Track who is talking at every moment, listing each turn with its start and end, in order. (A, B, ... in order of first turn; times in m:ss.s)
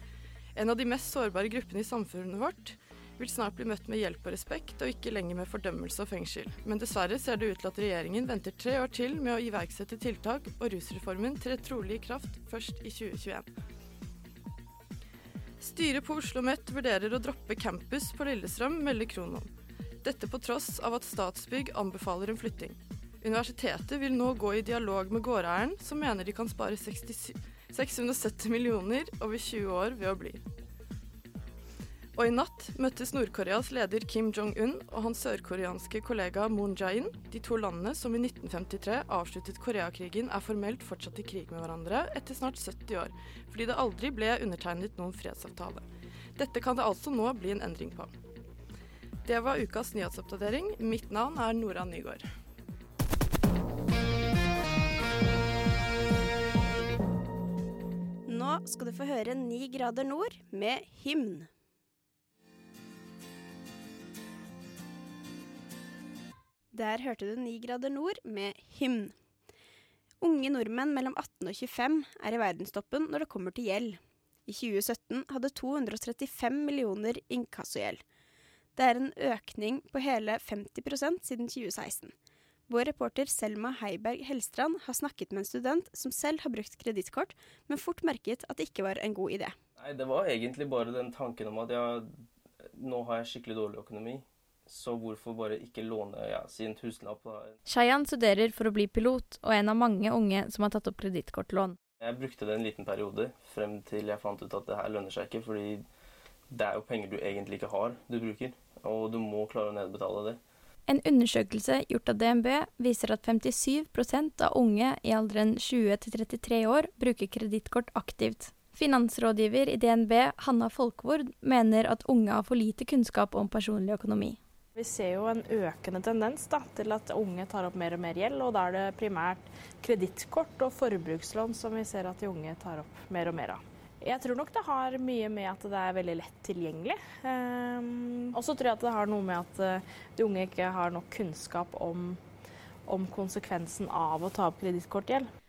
0:00.6-0:13.5 A
0:15.6-0:19.5 A
0:20.0-0:30.4 A
0:32.2-0:48.1 A
0:49.2-0:52.3 A
0:58.3-1:01.5 B
1:06.7-1:09.2 B
1:10.2-1:18.0 B
1:18.8-1:22.1 B
1:22.7-1:29.6 B
1:29.8-1:37.6 C
1:37.7-1:41.8 D
1:42.0-1:45.8 C
1:46.5-1:50.4 C
1:50.9-2:04.4 D
2:04.8-2:22.2 E
2:22.9-2:25.3 E